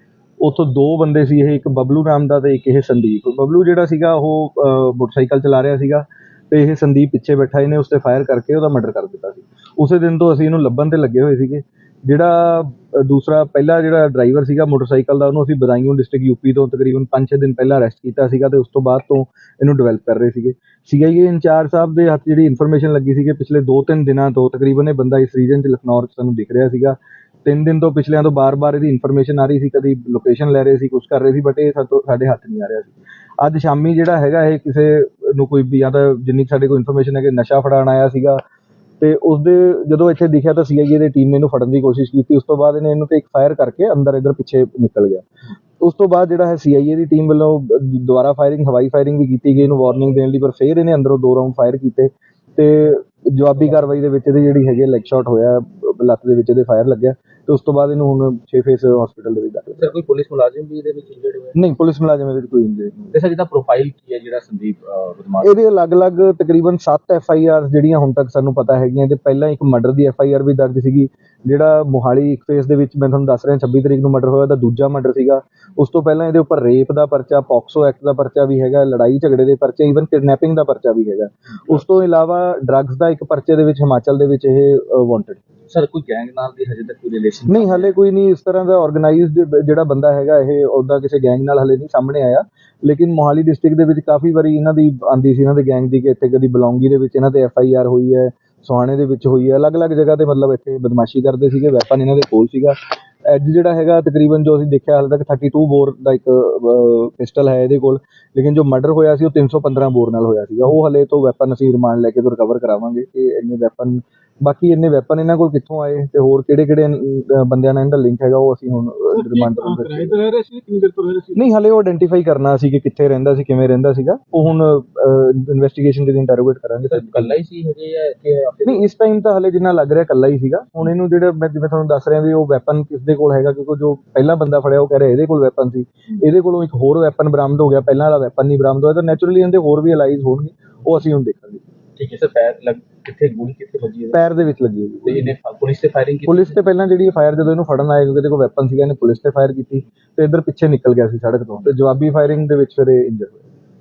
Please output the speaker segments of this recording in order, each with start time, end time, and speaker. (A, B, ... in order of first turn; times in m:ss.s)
0:00.4-0:38.4 A
0:39.0-0:45.3 A
0:45.8-0:59.9 A
0:59.8-1:01.6 B
1:01.5-1:03.1 A
1:03.1-1:05.5 B
1:05.4-1:25.4 A
1:25.7-1:27.9 B
1:27.5-2:00.2 A
1:59.1-2:01.4 C
2:01.3-2:07.3 A
2:06.9-2:08.9 B
2:08.6-2:21.6 A
2:22.0-2:24.2 B
2:24.1-2:25.3 A
2:25.0-2:26.6 B
2:26.2-2:33.5 A